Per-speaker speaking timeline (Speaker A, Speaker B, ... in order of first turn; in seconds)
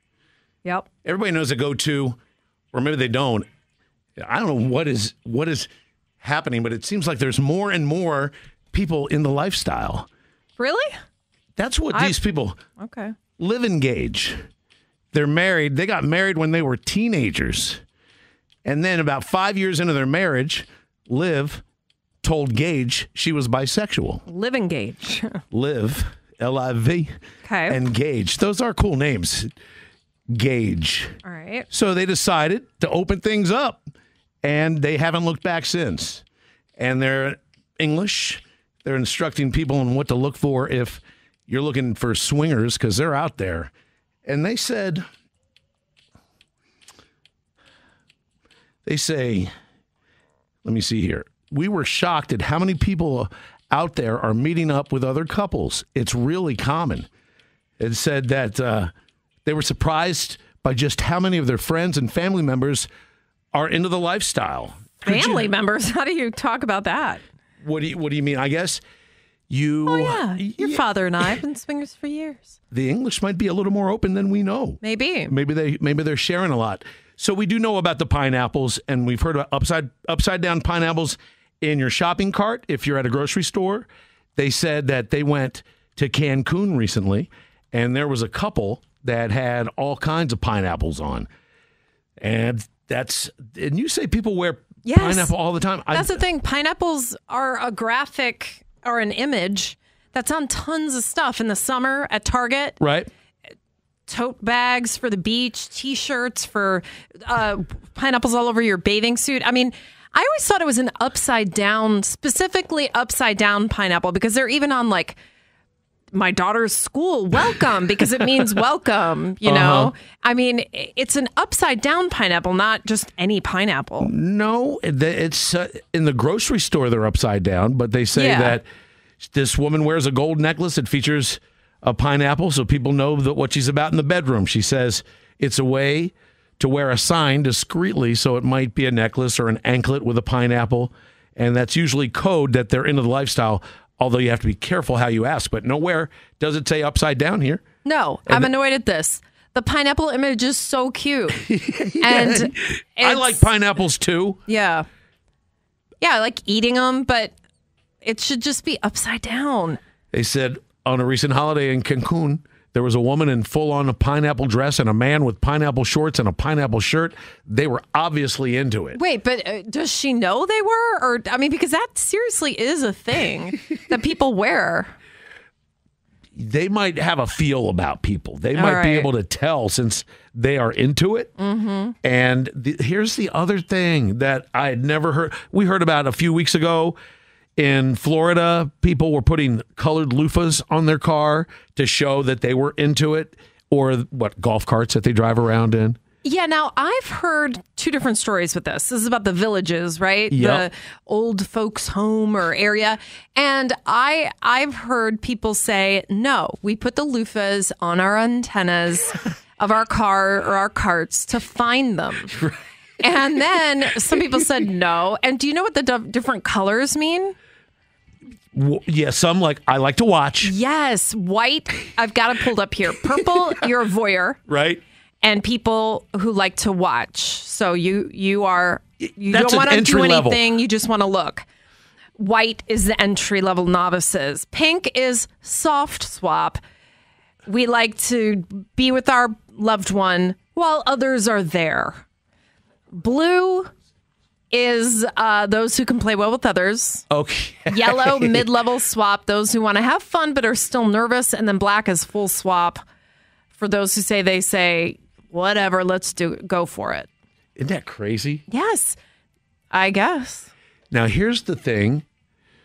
Speaker A: 1.0-2.2, 2.7-3.5, 4.2-5.7, 6.2-10.1, 11.6-12.6, 13.4-14.4, 15.1-17.8, 18.6-21.6, 22.2-24.2, 25.5-27.1, 27.7-29.5, 30.3-31.1, 31.7-33.8, 34.4-36.2, 36.8-43.7, 44.3-45.0, 48.9-49.5, 50.6-57.1, 57.8-58.9, 59.5-62.9, 63.5-65.5, 67.6-68.8, 69.5-70.8, 72.7-91.3, 92.2-96.2, 102.8-103.1, 119.4-119.9, 124.0-128.7, 129.2-147.6, 151.4-154.4, 160.1-169.0, 176.4-181.3, 182.0-187.0, 187.6-196.0, 200.3-200.7, 218.5-220.5, 224.5-224.8, 229.3-230.4, 247.1-248.4, 257.6-258.4, 260.9-262.0
Speaker B: 10.6-10.9, 11.9-12.2, 12.8-13.2, 24.3-25.4, 27.4-27.8, 31.2-31.7, 65.0-67.2, 69.9-72.5, 74.8-75.3, 94.8-95.3, 95.9-102.8, 104.1-115.2, 116.1-124.1, 128.1-128.6, 147.8-151.4, 152.0-153.5, 154.5-154.8, 156.0-157.3, 158.0-159.8, 169.0-174.9, 178.6-179.1, 181.4-181.9, 196.2-212.4, 213.0-217.3, 220.4-224.4, 225.2-231.4, 232.2-236.6, 237.5-242.0, 242.9-243.7, 244.5-247.1, 247.7-252.8, 253.6-257.1, 258.5-259.0, 259.7-260.5